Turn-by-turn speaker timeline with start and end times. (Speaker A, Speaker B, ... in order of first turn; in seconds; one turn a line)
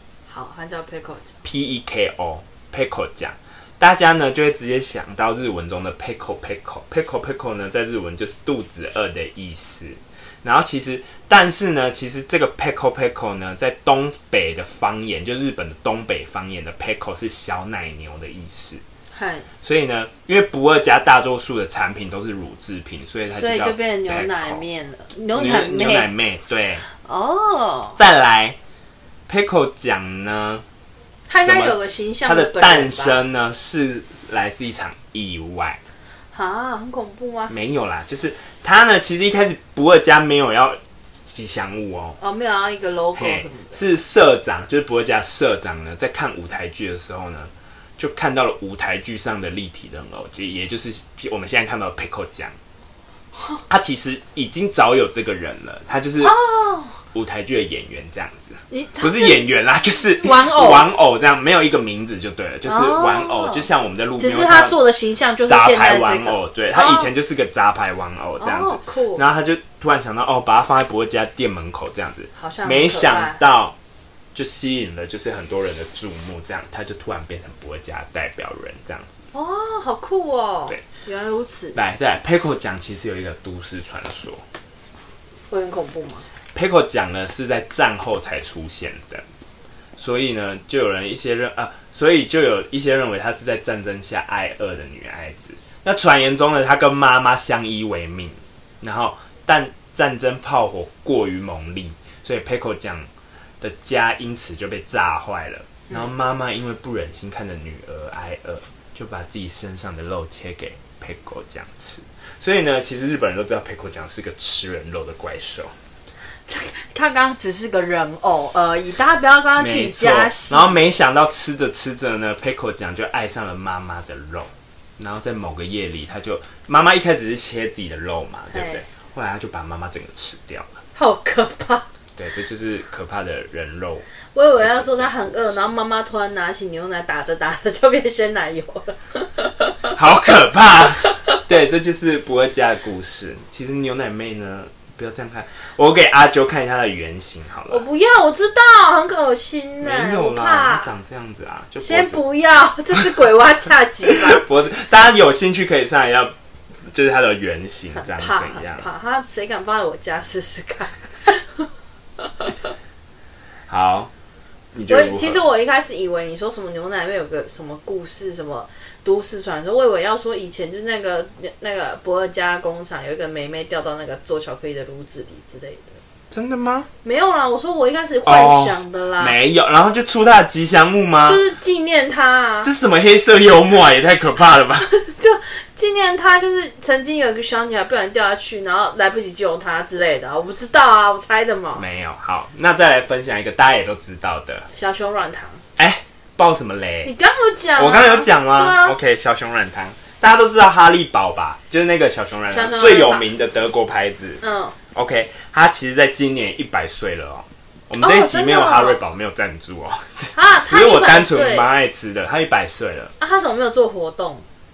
Speaker A: 0.3-1.3
Speaker B: 1.4-18.8
Speaker A: 19.1-19.5
Speaker B: 19.6-24.6
Speaker A: 23.3-26.1
Speaker B: 25.3-26.8
Speaker A: 27.0-28.0
Speaker B: 28.0-28.6
Speaker B: 29.3-30.6
Speaker A: 31.3-33.2
Speaker B: 31.4-35.8
Speaker A: 36.3-37.5
Speaker B: 37.5-42.2
Speaker A: 42.2-43.8
Speaker B: 43.2-52.5
Speaker A: 53.4-53.6
Speaker B: 53.7-56.3
Speaker A: 56.2-57.0
Speaker B: 57.1-64.8
Speaker A: 58.7-59.4
Speaker A: 60.2-60.9
Speaker A: 62.6-63.7
Speaker A: 64.2-67.1
Speaker B: 65.5-73.8
Speaker A: 68.4-69.2
Speaker A: 72.4-73.4
Speaker B: 74.3-79.2
Speaker A: 79.3-81.8
Speaker B: 81.8-84.4
Speaker A: 85.5-86.3
Speaker B: 86.5-89.2
Speaker B: 90.0-103.1
Speaker B: 103.6-115.7
Speaker A: 116.5-120.7
Speaker B: 119.6-130.7
Speaker A: 128.5-128.8
Speaker A: 130.9-131.8
Speaker B: 132.2-134.0
Speaker A: 134.3-139.9
Speaker B: 134.6-135.7
Speaker B: 139.9-147.8
Speaker A: 141.0-141.4
Speaker A: 147.7-150.9
Speaker B: 149.8-152.2
Speaker A: 151.8-154.4
Speaker B: 154.0-156.3
Speaker B: 156.9-158.9
Speaker A: 157.9-161.7
Speaker A: 162.3-162.5
Speaker B: 163.7-164.1
Speaker B: 164.7-165.4
Speaker A: 164.9-176.0
Speaker B: 176.3-176.9
Speaker A: 177.0-179.4
Speaker B: 178.2-181.4
Speaker A: 181.2-182.7
Speaker B: 182.5-184.9
Speaker A: 184.8-191.8
Speaker B: 191.8-194.7
Speaker A: 194.7-195.6
Speaker B: 195.8-197.1
Speaker A: 197.0-199.0
Speaker B: 197.8-204.4
Speaker A: 202.5-203.2
Speaker A: 204.4-204.8
Speaker B: 204.9-213.1
Speaker A: 208.0-209.0
Speaker A: 210.3-211.7
Speaker A: 213.2-214.4